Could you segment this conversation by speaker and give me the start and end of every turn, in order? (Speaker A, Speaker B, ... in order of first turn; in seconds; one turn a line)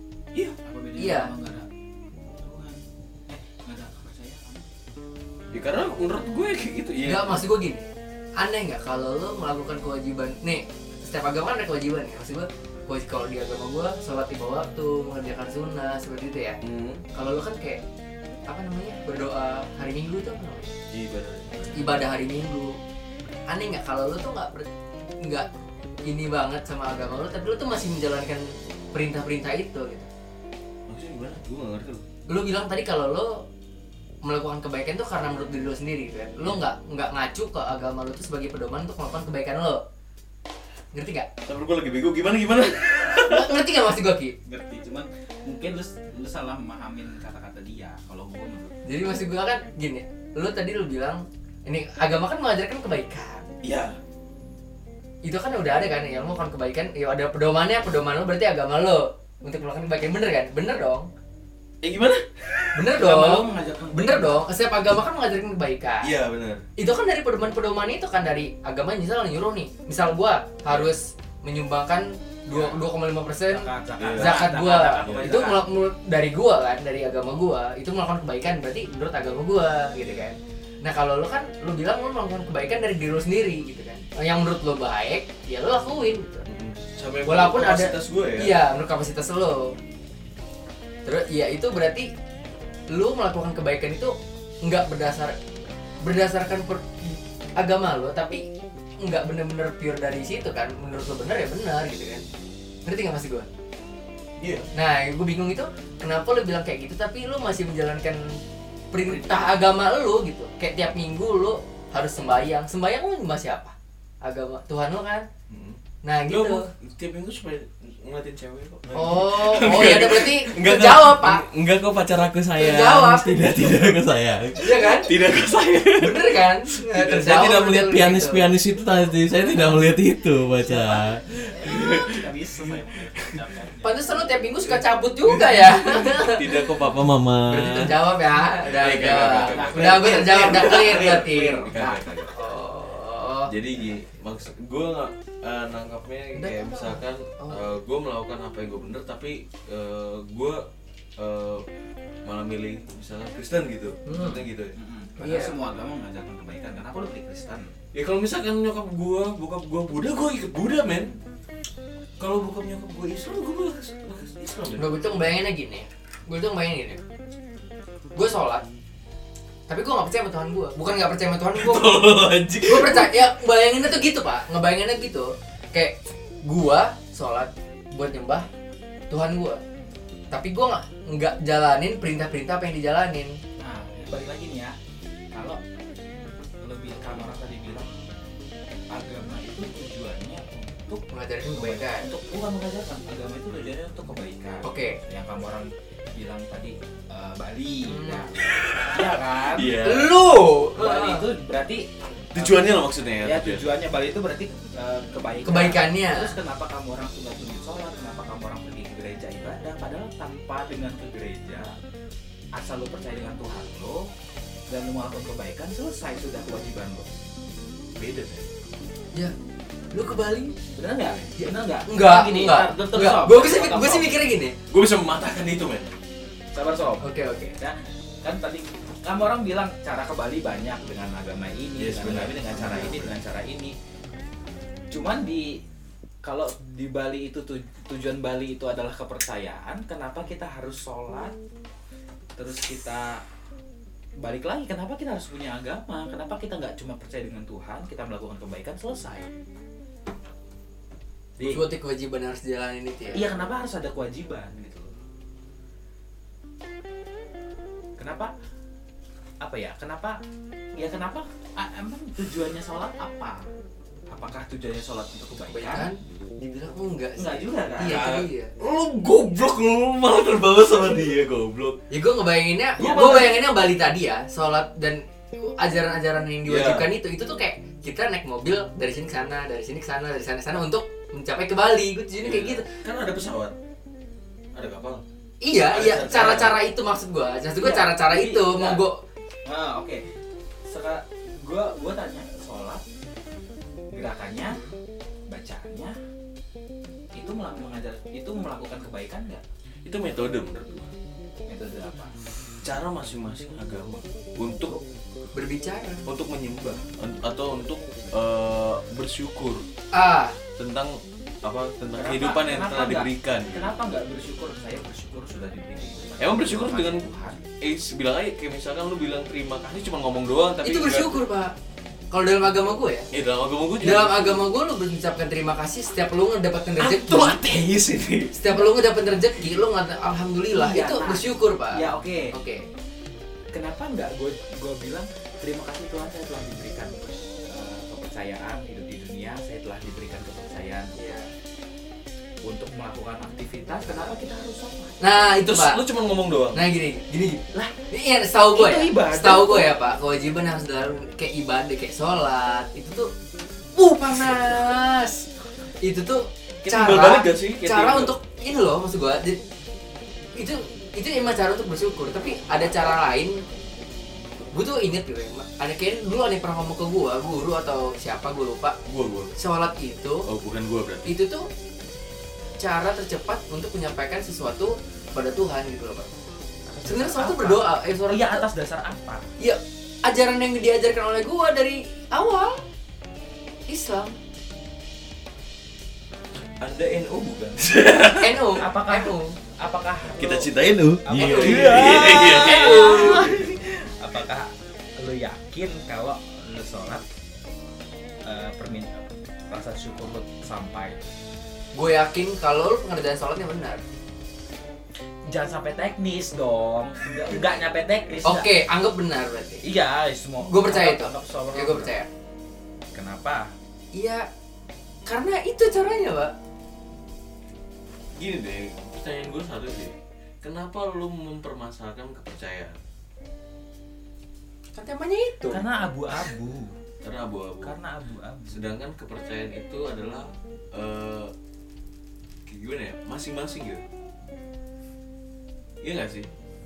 Speaker A: 0.4-1.7
Speaker B: 1.0-1.3
Speaker A: 2.4-4.7
Speaker C: 5.5-7.4
Speaker B: 7.0-16.6
Speaker C: 16.6-17.0
Speaker B: 17.1-17.8
Speaker B: 18.5-20.7
Speaker C: 20.9-22.0
Speaker B: 21.7-22.8
Speaker B: 23.5-24.7
Speaker B: 25.2-25.5
Speaker B: 26.1-30.1
Speaker C: 30.9-32.1
Speaker B: 32.3-33.5
Speaker B: 34.2-39.8
Speaker B: 40.9-41.3
Speaker C: 41.5-43.6
Speaker B: 43.1-44.4
Speaker A: 44.5-48.8
Speaker B: 48.9-53.5
Speaker C: 53.6-54.0
Speaker B: 55.2-61.1
Speaker C: 61.8-62.9
Speaker B: 62.8-66.1
Speaker A: 62.9-64.5
Speaker C: 66.0-66.6
Speaker B: 66.8-86.5
Speaker A: 72.5-72.8
Speaker A: 73.5-75.6
Speaker C: 74.0-74.5
Speaker C: 75.0-75.4
Speaker C: 86.5-88.5
Speaker B: 87.3-89.8
Speaker B: 91.0-92.1
Speaker B: 92.9-95.4
Speaker B: 96.0-98.4
Speaker B: 99.0-102.2
Speaker B: 102.9-103.5
Speaker C: 104.4-104.7
Speaker B: 104.8-108.2
Speaker B: 108.9-115.3
Speaker C: 109.1-109.5
Speaker C: 115.5-133.4
Speaker B: 116.0-116.6
Speaker B: 118.9-121.4
Speaker B: 122.6-123.6
Speaker B: 124.6-125.1
Speaker B: 126.0-128.5
Speaker A: 130.7-134.2
Speaker B: 133.8-136.8
Speaker C: 134.7-138.0
Speaker B: 137.5-143.5
Speaker C: 138.6-142.4
Speaker A: 138.9-142.3
Speaker C: 143.5-150.7
Speaker B: 146.3-147.8
Speaker C: 151.2-151.7
Speaker C: 152.2-154.8
Speaker B: 154.1-154.4
Speaker A: 154.8-157.7
Speaker B: 155.2-155.6
Speaker C: 157.9-161.2
Speaker C: 162.2-165.1
Speaker B: 164.8-167.0
Speaker B: 168.2-168.6
Speaker B: 169.7-172.1
Speaker C: 171.6-173.2
Speaker B: 172.7-178.5
Speaker B: 179.1-179.6
Speaker B: 180.3-183.4
Speaker A: 183.6-184.8
Speaker A: 185.3-185.6
Speaker A: 186.6-187.9
Speaker A: 188.9-199.8
Speaker B: 191.1-192.1
Speaker B: 194.6-195.0
Speaker B: 197.9-198.3
Speaker C: 198.4-200.2
Speaker B: 199.8-201.3
Speaker A: 200.8-202.7
Speaker C: 202.3-203.7
Speaker A: 203.2-211.8
Speaker B: 205.4-206.3
Speaker A: 212.6-214.1
Speaker A: 214.7-217.1
Speaker C: 218.0-218.5
Speaker B: 219.9-220.6
Speaker A: 220.7-224.2
Speaker B: 221.3-224.6
Speaker C: 224.7-225.9
Speaker A: 226.5-233.8
Speaker B: 227.0-227.6
Speaker C: 231.8-233.2
Speaker A: 234.9-235.6
Speaker A: 236.2-241.3
Speaker A: 242.4-243.2
Speaker A: 244.2-249.3
Speaker A: 251.4-251.7
Speaker B: 251.4-253.3
Speaker A: 253.1-254.9
Speaker A: 258.0-258.3
Speaker A: 259.4-260.2
Speaker A: 260.8-263.4
Speaker A: 264.1-265.9
Speaker B: 265.5-268.5
Speaker A: 267.2-268.1
Speaker C: 267.9-271.8
Speaker B: 271.9-282.7
Speaker C: 272.8-273.3
Speaker C: 276.5-276.9
Speaker C: 282.2-283.5
Speaker C: 284.5-285.0
Speaker B: 285.4-289.0
Speaker C: 285.6-286.6
Speaker A: 287.6-288.8
Speaker A: 289.5-290.0
Speaker A: 290.7-292.8
Speaker A: 293.9-294.6
Speaker A: 295.3-296.0
Speaker A: 297.1-299.4
Speaker C: 299.9-300.9
Speaker A: 301.5-302.1
Speaker C: 302.6-304.8
Speaker B: 305.4-306.0
Speaker C: 306.1-309.6
Speaker B: 309.9-310.4
Speaker C: 310.6-313.7
Speaker A: 312.0-317.4
Speaker C: 316.2-317.1
Speaker C: 317.6-321.2
Speaker B: 320.6-321.5
Speaker B: 322.1-323.1
Speaker C: 323.1-324.4
Speaker B: 323.8-327.4
Speaker C: 326.8-328.6
Speaker B: 328.3-332.6
Speaker A: 330.5-332.3
Speaker A: 333.5-340.9
Speaker B: 341.0-341.3
Speaker A: 342.4-345.0
Speaker B: 345.0-345.8
Speaker C: 345.4-346.6
Speaker B: 346.5-353.1
Speaker A: 348.5-349.8
Speaker B: 353.8-355.3
Speaker C: 354.3-354.5
Speaker B: 355.8-359.4
Speaker C: 356.6-358.1
Speaker B: 360.4-363.4
Speaker B: 364.5-368.8
Speaker C: 368.9-369.3
Speaker B: 369.4-370.3
Speaker C: 370.3-371.1
Speaker B: 371.1-371.5
Speaker B: 372.6-376.1
Speaker A: 376.7-379.3
Speaker B: 376.9-378.5
Speaker B: 379.4-382.6
Speaker B: 383.7-384.2
Speaker C: 386.6-388.5
Speaker B: 388.2-389.4
Speaker A: 388.6-390.5
Speaker C: 390.2-393.6
Speaker A: 391.1-397.0
Speaker B: 391.2-393.4
Speaker A: 398.2-401.0
Speaker B: 401.7-403.8
Speaker A: 405.3-408.5
Speaker B: 408.2-409.6
Speaker A: 409.6-411.9
Speaker B: 410.4-412.1
Speaker A: 412.9-413.5
Speaker B: 413.9-414.3
Speaker B: 415.1-416.3
Speaker C: 418.2-422.8
Speaker B: 424.7-425.6
Speaker A: 425.5-426.7
Speaker C: 427.0-427.8
Speaker A: 427.6-428.6
Speaker C: 428.5-431.3
Speaker C: 432.5-433.9
Speaker C: 435.8-436.3